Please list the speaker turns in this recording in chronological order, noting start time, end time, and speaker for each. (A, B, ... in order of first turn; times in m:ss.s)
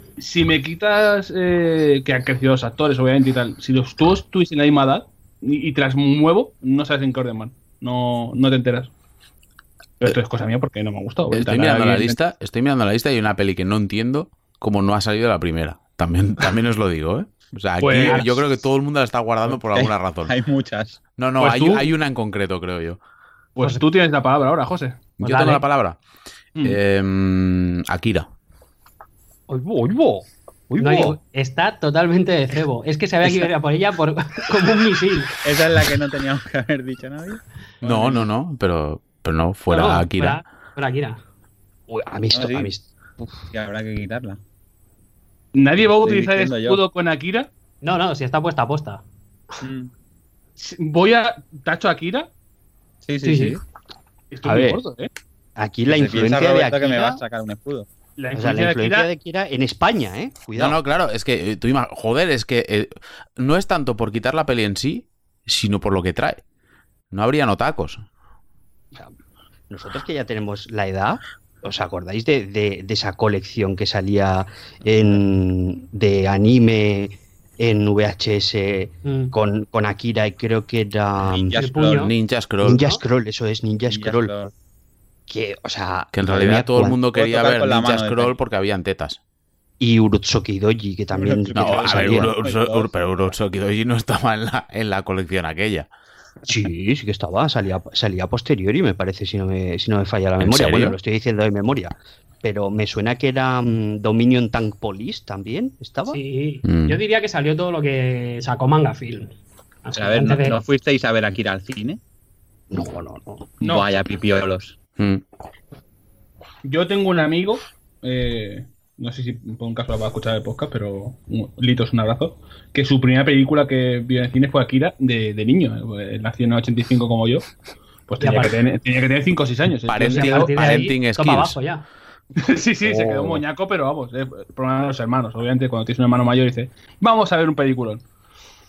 0:00.2-0:08.9 A
0:10.0-0:12.2 A
0:11.3-0:20.3 B
0:17.8-0:18.4 A
0:18.0-0:18.3 C
0:19.8-0:21.0 D
0:21.2-0:23.0 B
0:21.4-0:21.9 A
0:23.6-0:25.0 A
0:25.2-0:26.0 B
0:25.2-0:25.6 C
0:26.6-0:28.3 B
0:29.5-0:31.2 E
0:30.8-0:35.4 C
0:35.4-0:38.2 D
0:37.8-0:40.4 B
0:39.7-0:41.2 C
0:41.9-0:43.3 E
0:42.3-0:42.7 D
0:43.5-0:44.4 D
0:45.5-0:47.5 A
0:46.0-0:46.8 D
0:47.8-0:49.0 C
0:49.6-0:49.9 D
0:50.6-0:52.3 A
0:53.0-0:53.6 D
0:53.2-0:53.6 C
0:54.3-0:55.1 A
0:54.4-0:54.8 E
0:55.6-0:57.2 E
0:55.9-0:57.9 D
0:58.2-0:59.1 A
0:58.3-1:00.8 E
1:00.6-1:06.4 B
1:07.1-1:08.0 B
1:09.7-1:21.6 E
1:19.0-1:19.3 C
1:21.3-1:22.1 D
1:21.5-1:22.1 C
1:21.9-1:22.9 B
1:22.6-1:24.4 E
1:23.9-1:24.5 D
1:25.3-1:27.0 E
1:26.1-1:29.2 B
1:27.1-1:28.3 D
1:29.8-1:32.3 E
1:31.1-1:32.9 D
1:31.6-1:35.9 B
1:36.5-1:46.2 E
1:40.4-1:41.0 B
1:46.1-1:49.3 C
1:46.6-1:47.0 B
1:49.8-1:50.6 C
1:50.0-1:52.0 D
1:52.7-1:53.5 E
1:53.6-1:53.9 A
1:53.6-1:54.8 D
1:56.6-2:07.5 A
2:08.1-2:10.6 A
2:08.2-2:08.6 C
2:09.9-2:11.6 B
2:10.0-2:11.9 C
2:12.4-2:18.0 A
2:12.8-2:13.4 E